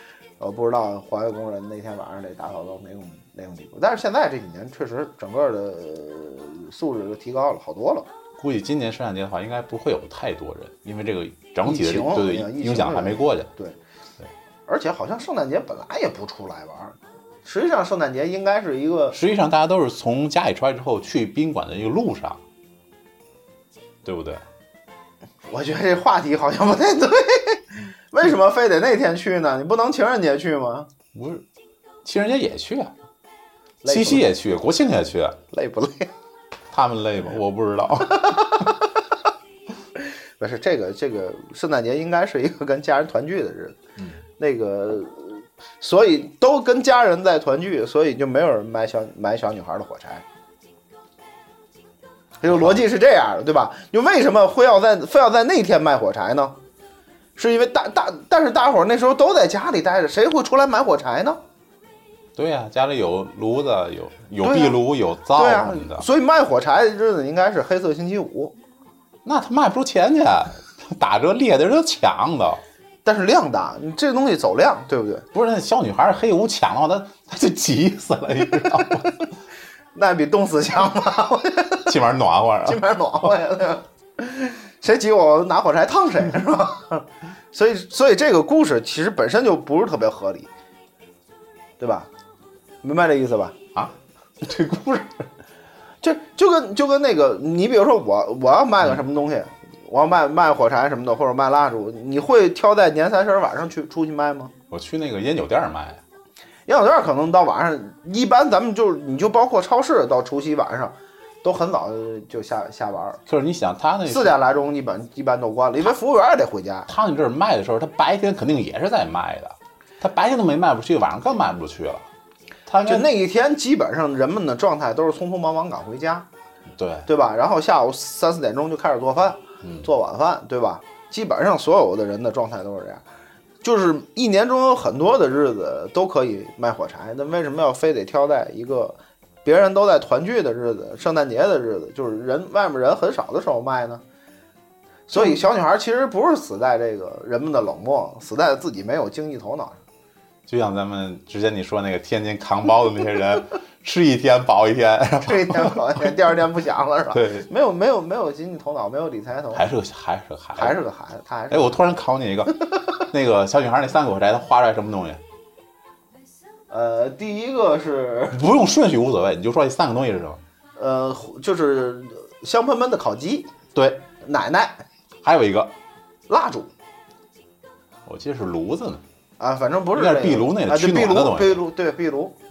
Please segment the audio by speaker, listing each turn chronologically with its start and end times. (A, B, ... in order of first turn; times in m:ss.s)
0:00.4-0:08.1 A
0:08.4-0:13.5 B
0:11.6-0:13.8 A
0:14.7-0:19.2 A
0:19.1-0:22.4 B
0:24.0-0:24.4 B
0:25.4-0:30.9 A
0:31.1-0:31.4 B
0:32.0-0:32.9 B
0:33.8-0:34.3 A
0:33.8-0:35.4 B
0:35.5-0:36.1 A
0:36.7-0:38.6 B
0:38.2-0:38.7 A
0:40.4-0:43.8 A
0:44.4-0:50.2 A
0:52.4-0:56.6 A
0:52.5-0:52.8 B
0:57.4-1:01.4 A
1:02.4-1:06.0 B
1:04.4-1:04.8 A
1:05.3-1:08.5 A
1:09.2-1:12.6 B
1:13.0-1:15.2 A
1:15.3-1:19.1 B
1:19.9-1:21.9 A
1:21.8-1:22.8 B
1:22.6-1:30.5 A
1:31.8-1:32.1 A
1:32.8-1:33.6 A
1:33.7-1:35.3 B
1:36.0-1:44.5 A
1:44.7-1:46.0 B
1:46.7-1:53.2 A
1:53.3-1:54.4 B
1:54.1-1:56.9 A
1:56.9-2:02.1 B
2:02.7-2:03.1 B
2:02.8-2:06.3 A
2:06.7-2:07.1 B
2:07.0-2:13.0 A
2:13.6-2:24.0 A
2:25.1-2:29.8 A
2:30.5-2:36.1 B
2:35.2-2:39.7 A
2:37.1-2:37.5 B
2:39.5-2:40.8 B
2:40.6-2:41.9 A
2:41.5-2:45.2 B
2:46.7-2:48.4 A
2:48.3-2:50.4 B
2:50.8-2:53.5 A
2:53.7-2:54.0 B
2:54.2-2:54.8 A
2:55.2-2:55.7 B
2:56.3-2:56.7 A
2:58.0-2:59.0 B
2:59.4-3:02.4 A
2:59.9-3:01.6 B